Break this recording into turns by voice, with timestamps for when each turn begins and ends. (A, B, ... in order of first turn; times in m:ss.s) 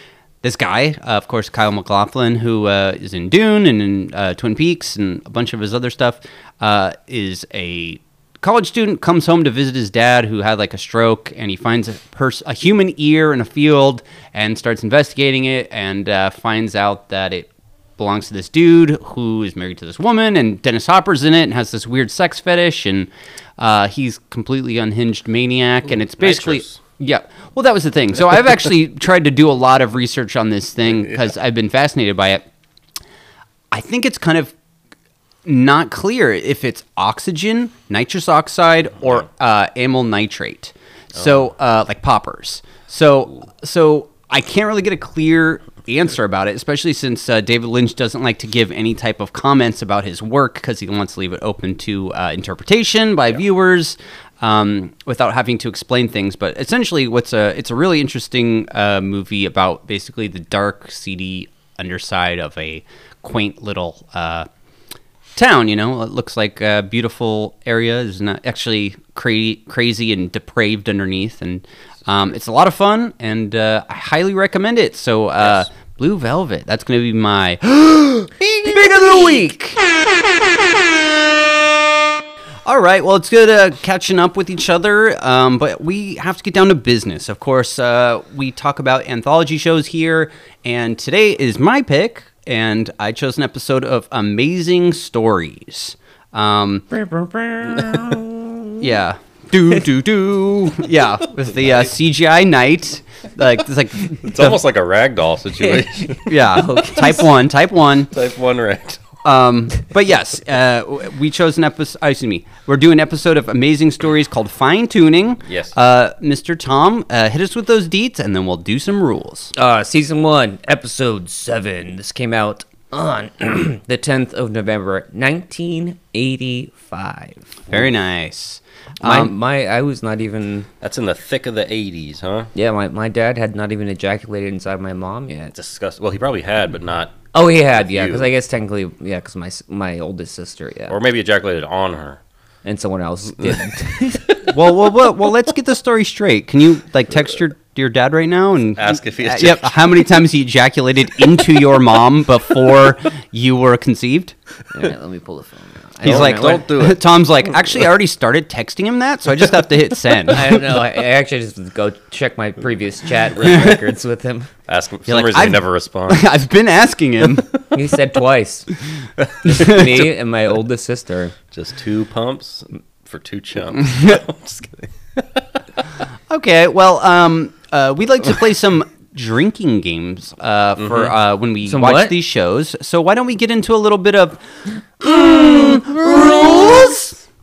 0:00.4-0:32.4 A
0:26.2-0:26.8 B
0:33.7-0:34.5 A
0:35.5-1:04.5 A
1:05.4-1:19.8 A
1:18.7-1:19.5 C
1:22.7-1:36.8 A
1:36.9-1:38.8 C
1:37.7-1:38.2 B
1:38.8-1:44.6 A
1:44.2-1:46.3 B
1:45.6-1:47.3 C
1:46.3-1:48.1 A
1:48.1-1:49.1 B
1:49.2-1:59.5 A
1:55.5-1:55.7 B
1:59.6-2:07.6 C
2:07.7-2:09.3 A
2:09.0-2:10.7 C
2:10.8-2:12.5 B
2:12.6-2:15.5 C
2:15.5-2:18.3 B
2:17.3-2:21.0 C
2:20.9-2:22.2 B
2:22.6-2:24.4 C
2:24.5-2:34.4 A
2:28.8-2:29.8 B
2:34.7-2:36.6 C
2:36.0-2:37.0 B
2:36.0-2:40.7 A
2:40.3-2:44.5 C
2:43.4-2:43.8 B
2:43.4-2:43.7 A
2:44.7-2:46.3 B
2:45.1-2:47.5 A
2:47.7-2:48.7 C
2:49.2-2:50.0 B
2:49.4-2:51.3 C
2:49.5-2:49.8 A
2:51.5-2:55.6 B
2:56.3-3:04.4 A
3:00.8-3:01.1 B
3:01.6-3:02.2 C
3:05.0-3:07.2 A
3:05.4-3:06.8 B